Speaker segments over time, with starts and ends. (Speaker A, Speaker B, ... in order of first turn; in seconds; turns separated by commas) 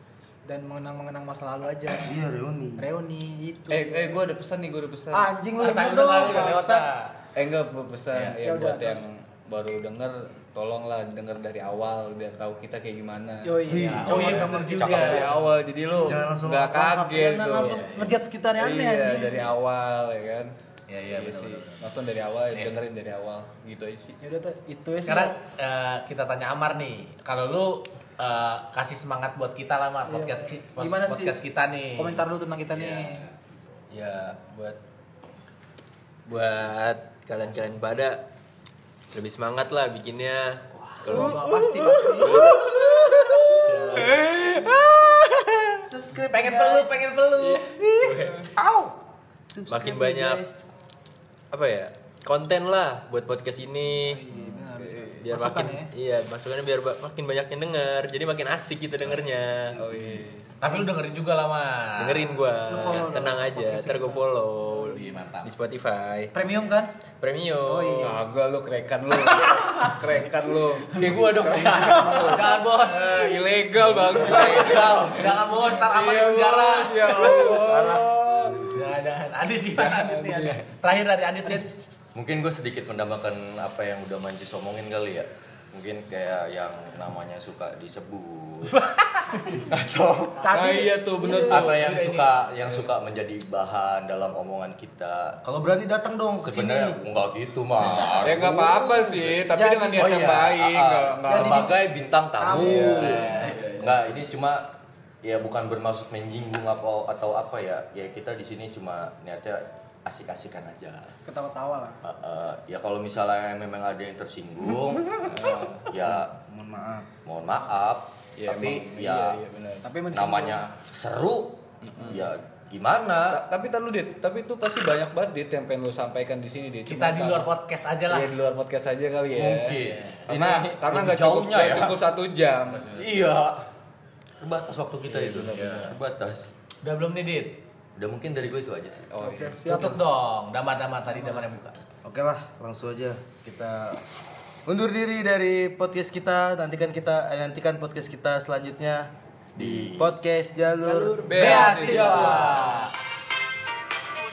Speaker A: 0.5-2.2, Speaker B: 2.0-2.9, Speaker A: 2.8-4.2, Speaker C: 3.7-5.3, Speaker A: 5.1-6.9, Speaker D: 5.6-7.1, Speaker C: 7.3-13.6, Speaker A: 8.4-9.1, Speaker A: 13.4-15.4, Speaker B: 13.7-14.6, Speaker D: 13.7-15.4, Speaker E: 14.8-15.3, Speaker C: 14.8-17.8, Speaker A: 16.0-16.3, Speaker B: 16.0-17.7, Speaker A: 17.5-19.4, Speaker D: 17.6-18.2, Speaker C: 18.6-20.5, Speaker D: 20.9-21.9, Speaker C: 21.1-24.2, Speaker A: 24.2-25.4, Speaker D: 25.0-33.3, Speaker A: 30.1-31.4, Speaker A: 31.9-33.2, Speaker F: 33.9-34.8, Speaker F: 36.3-38.2, Speaker F: 39.1-42.7, Speaker D: 41.0-41.3, Speaker A: 41.0-44.3, Speaker B: 41.4-43.6, Speaker D: 43.6-44.4, Speaker F: 44.0-45.8, Speaker B: 45.8-47.0, Speaker D: 46.3-48.5, Speaker F: 47.5-48.4, Speaker A: 47.5-48.6, Speaker A: 49.6-50.6, Speaker F: 49.7-50.5, Speaker F: 51.5-54.2, Speaker A: 53.8-55.9, Speaker C: 54.7-55.2, Speaker F: 55.2-59.8, Speaker B: 59.7-60.2, Speaker C: 59.8-60.5, Speaker D: 60.6-62.5, Speaker F: 62.0-66.4, Speaker A: 62.7-64.2, Speaker D: 64.7-65.5, Speaker A: 66.3-66.9, Speaker F: 67.2-68.2, Speaker A: 67.6-68.1, Speaker C: 68.0-78.7, Speaker D: 69.1-70.0, Speaker E: 70.9-72.4, Speaker D: 71.0-73.5, Speaker A: 72.3-72.5, Speaker E: 73.8-75.3, Speaker D: 74.1-77.9, Speaker B: 77.6-78.2, Speaker D: 78.5-81.7, Speaker C: 79.8-80.6, Speaker E: 82.1-88.8, Speaker D: 88.7-89.6, Speaker E: 89.6-90.6, Speaker D: 90.4-92.3, Speaker C: 90.5-91.9, Speaker E: 91.4-95.4, Speaker B: 95.4-97.0, Speaker E: 96.4-99.3, Speaker C: 98.2-101.7, Speaker A: 98.5-100.1, Speaker E: 100.0-111.1, Speaker A: 101.3-101.8, Speaker A: 102.4-103.5, Speaker C: 102.5-103.5, Speaker D: 102.9-104.2, Speaker A: 111.2-112.0, Speaker E: 112.0-115.3, Speaker C: 115.2-115.9, Speaker E: 115.9-116.3, Speaker B: 116.1-117.1, Speaker E: 117.2-119.4, Speaker C: 118.4-119.9, Speaker A: 119.8-120.7, Speaker E: 120.1-123.4, Speaker C: 121.8-122.3, Speaker C: 123.3-127.5, Speaker D: 126.9-128.3, Speaker C: 128.1-132.9, Speaker E: 129.3-132.0, Speaker D: 129.8-130.3, Speaker D: 132.7-133.2, Speaker E: 132.9-133.7, Speaker E: 134.4-136.5, Speaker C: 135.1-135.9, Speaker D: 136.8-137.6, Speaker E: 137.9-139.2, Speaker C: 139.1-140.0, Speaker A: 139.3-139.6, Speaker D: 139.5-141.8, Speaker B: 142.0-144.0, Speaker B: 144.6-151.6, Speaker E: 149.6-150.1, Speaker A: 150.8-152.8, Speaker C: 151.2-152.5, Speaker D: 151.4-152.9